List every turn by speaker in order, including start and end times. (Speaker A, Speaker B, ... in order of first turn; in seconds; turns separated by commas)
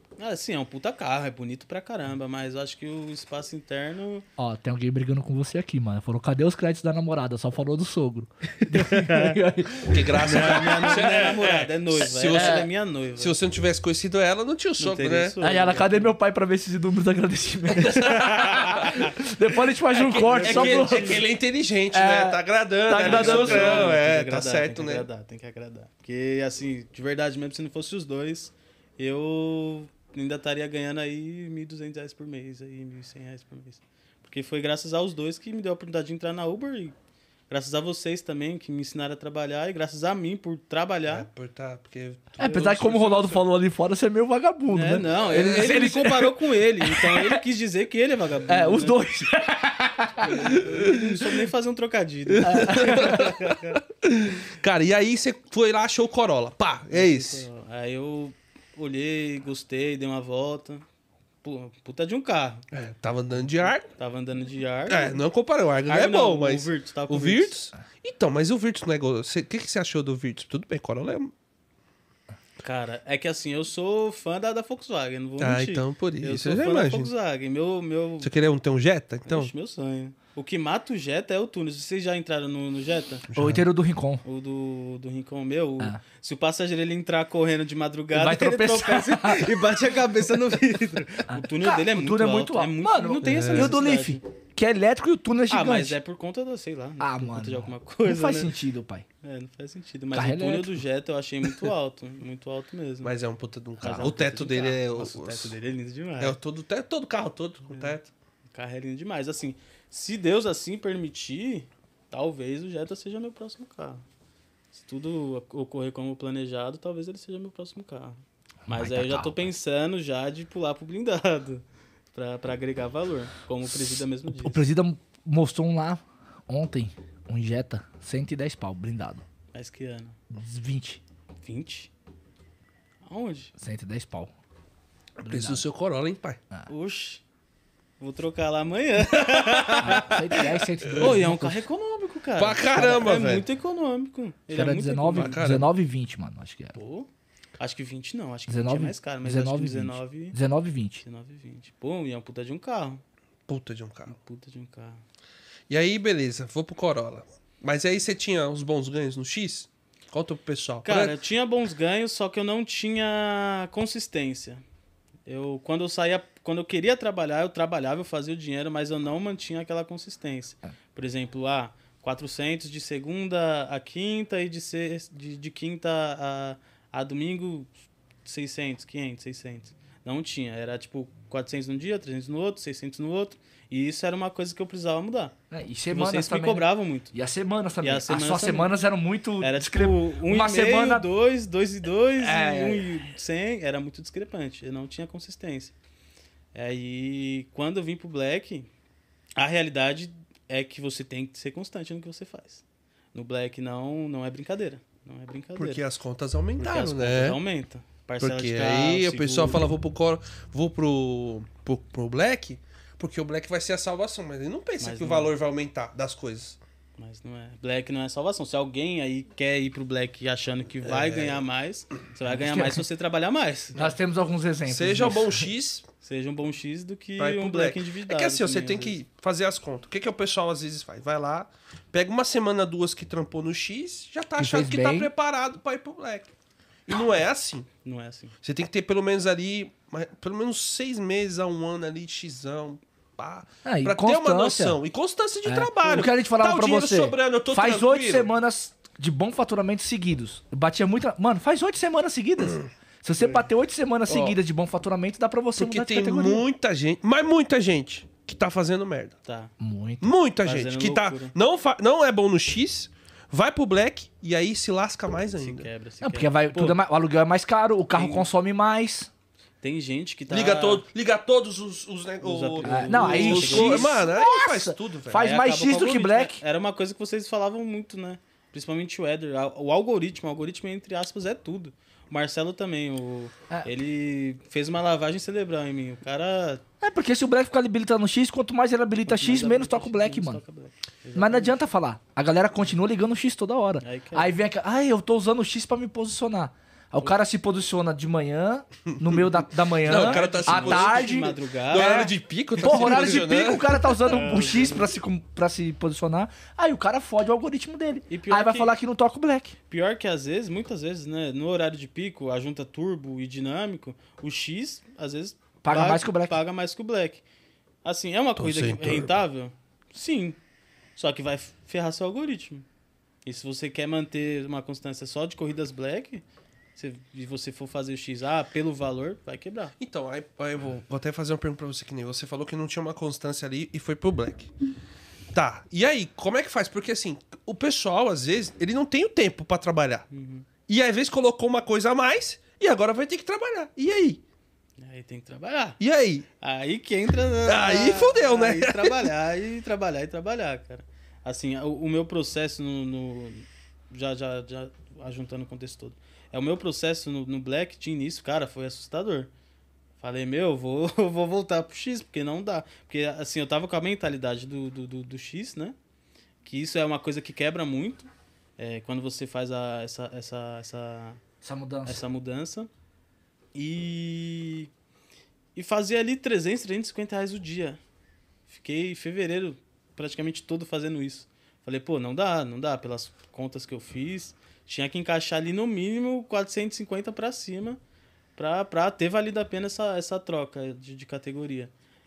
Speaker A: 0.2-4.2, Speaker B: 4.4-11.2, Speaker A: 8.7-9.4, Speaker C: 9.9-15.3, Speaker A: 10.2-13.4, Speaker B: 12.3-12.7, Speaker A: 14.8-16.1, Speaker B: 15.4-21.2, Speaker C: 17.8-18.9, Speaker A: 17.8-19.1, Speaker C: 20.1-25.1, Speaker A: 20.1-21.2, Speaker B: 21.9-23.9, Speaker A: 22.9-36.9, Speaker A: 37.5-41.3, Speaker C: 41.1-43.2, Speaker B: 42.4-47.4, Speaker A: 42.4-43.4, Speaker A: 44.7-49.0, Speaker B: 48.5-50.8, Speaker A: 50.2-53.8, Speaker C: 52.3-57.5, Speaker B: 52.4-53.3, Speaker A: 56.9-60.8, Speaker A: 61.4-62.6, Speaker C: 62.7-63.9, Speaker A: 63.8-65.2, Speaker C: 64.9-71.3, Speaker A: 65.9-67.5, Speaker A: 72.6-78.3, Speaker C: 75.4-77.1, Speaker C: 78.2-79.5, Speaker A: 79.3-83.2, Speaker C: 83.3-83.6, Speaker B: 83.3-84.2, Speaker A: 84.2-94.2, Speaker B: 88.1-89.5, Speaker B: 91.3-96.0, Speaker C: 93.2-93.8, Speaker A: 95.5-98.5, Speaker B: 97.0-99.0, Speaker A: 99.2-103.1, Speaker B: 100.1-100.8, Speaker C: 103.0-105.5, Speaker A: 103.8-106.4, Speaker C: 106.2-108.1, Speaker A: 107.7-108.0, Speaker A: 108.5-114.0, Speaker A: 114.7-124.7, Speaker B: 118.7-119.5, Speaker B: 124.3-129.2, Speaker A: 129.5-130.2, Speaker B: 130.3-131.0, Speaker A: 131.4-131.9, Speaker A: 133.0-133.5, Speaker B: 133.6-134.3, Speaker C: 135.2-136.4, Speaker B: 135.2-135.6, Speaker A: 136.7-137.2, Speaker A: 138.0-145.4, Speaker C: 139.2-140.1, Speaker B: 139.8-141.6, Speaker C: 140.8-141.1, Speaker C: 142.4-143.4, Speaker B: 144.5-146.8, Speaker C: 145.1-145.7, Speaker A: 146.7-150.3, Speaker B: 148.5-151.0, Speaker A: 151.0-153.0, Speaker C: 153.5-154.2, Speaker A: 154.1-155.0, Speaker C: 155.7-161.2, Speaker A: 160.8-164.6, Speaker A: 165.2-177.7, Speaker A: 178.2-185.3, Speaker B: 185.5-191.1, Speaker A: 185.9-187.1, Speaker A: 187.8-188.7, Speaker A: 189.4-195.7, Speaker B: 192.2-192.9, Speaker A: 196.5-198.7, Speaker A: 199.4-202.6, Speaker A: 203.1-205.8, Speaker C: 205.6-207.4, Speaker A: 206.6-209.7, Speaker C: 208.2-216.6, Speaker A: 214.8-215.3, Speaker A: 217.0-223.9, Speaker C: 220.8-221.4, Speaker B: 222.2-222.8, Speaker B: 223.7-225.5, Speaker C: 224.7-225.8, Speaker A: 226.0-229.0, Speaker C: 227.2-236.3, Speaker B: 234.4-235.1, Speaker C: 236.9-237.7, Speaker A: 237.8-238.3, Speaker C: 238.4-248.3, Speaker B: 243.6-244.8, Speaker B: 245.4-256.4, Speaker C: 254.1-254.4, Speaker C: 255.6-259.2, Speaker A: 259.2-259.5, Speaker B: 259.6-260.1, Speaker C: 260.0-265.7, Speaker A: 260.4-261.3, Speaker A: 265.4-266.8, Speaker B: 266.0-269.1, Speaker A: 267.9-268.3, Speaker A: 269.6-270.8, Speaker C: 270.3-275.2, Speaker A: 272.2-273.9, Speaker B: 272.6-276.4, Speaker A: 275.1-286.6, Speaker B: 286.8-290.4, Speaker A: 289.0-291.6, Speaker B: 291.1-309.5, Speaker A: 293.8-294.3, Speaker C: 298.9-304.1, Speaker A: 299.9-303.1, Speaker A: 304.0-304.9, Speaker A: 308.1-308.7, Speaker A: 309.7-317.2, Speaker B: 315.6-316.4, Speaker A: 317.8-320.4, Speaker C: 318.4-319.1, Speaker A: 320.9-322.6, Speaker A: 323.2-326.2, Speaker A: 326.8-329.7, Speaker C: 329.8-334.5, Speaker C: 335.3-340.1, Speaker A: 340.1-340.4, Speaker C: 340.7-344.2, Speaker A: 344.8-345.8, Speaker C: 345.8-346.3, Speaker A: 346.4-359.3, Speaker C: 347.4-349.1, Speaker A: 360.0-365.8, Speaker A: 366.4-371.2, Speaker B: 371.4-372.0, Speaker A: 371.8-372.7, Speaker A: 373.5-374.7, Speaker A: 375.5-377.8, Speaker A: 378.5-387.8, Speaker A: 388.4-391.7